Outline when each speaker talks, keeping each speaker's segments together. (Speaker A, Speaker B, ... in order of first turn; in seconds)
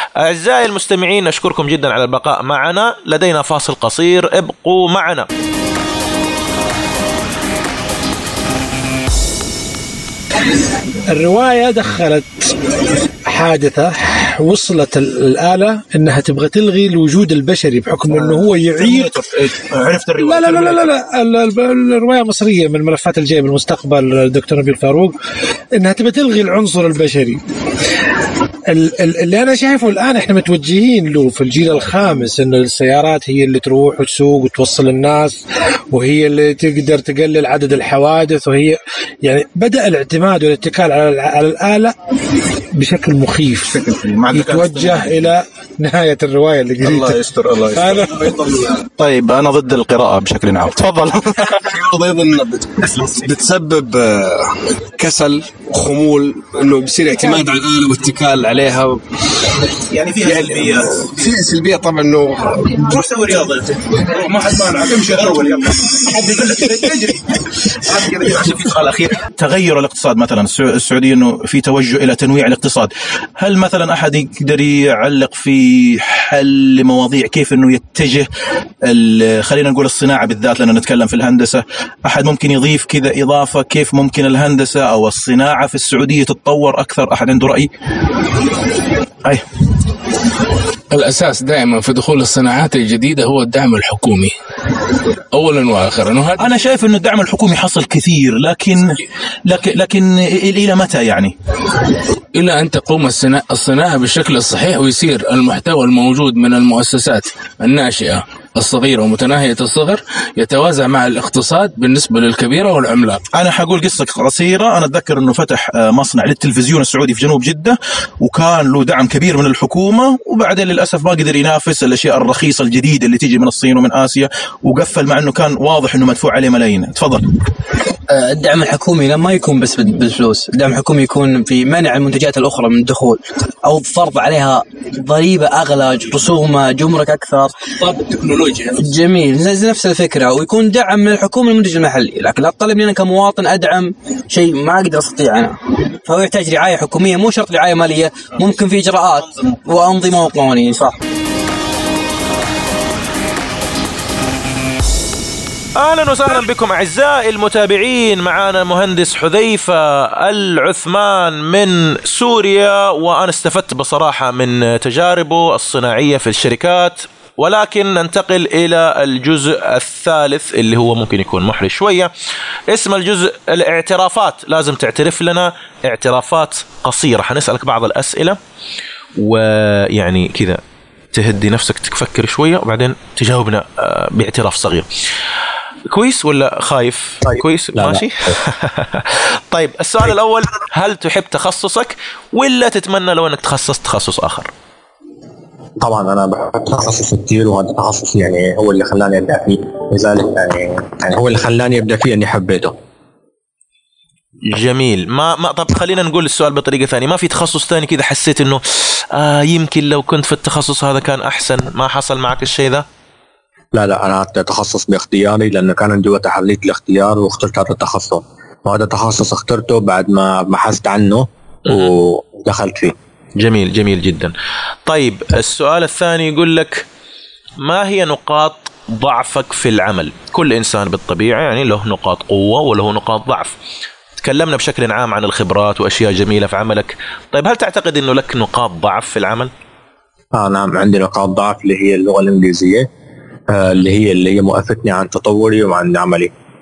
Speaker A: 0.2-5.3, 155.8-172.1, 172.7-178.4, 179.2-180.6, 181.1-184.9, 185.9-194.5, 204.5-212.8, 221.7-221.9, 223.4-224.3, 224.9-226.9, 227.6-233.6, 234.2-239.5
Speaker B: 11.1-12.5, 13.3-19.2, 20.2-25.1, 25.8-27.4, 28.7-35.4, 35.9-42.0, 42.8-47.2, 47.7-48.2
Speaker C: 18.1-20.9, 43.7-45.3, 49.0-51.6, 59.9-61.1, 62.7-78.3, 78.8-87.7, 96.4-101.3, 113.3-127.3
Speaker D: 46.9-48.8, 51.5-59.0, 60.2-62.7
Speaker E: 90.9-94.3, 95.3-96.5, 102.3-113.2, 137.8-138.8
Speaker F: 128.1-137.7, 138.8-151.0
Speaker G: 187.2-188.4, 195.8-202.8, 213.7-223.0, 240.3-242.9, 243.5-246.3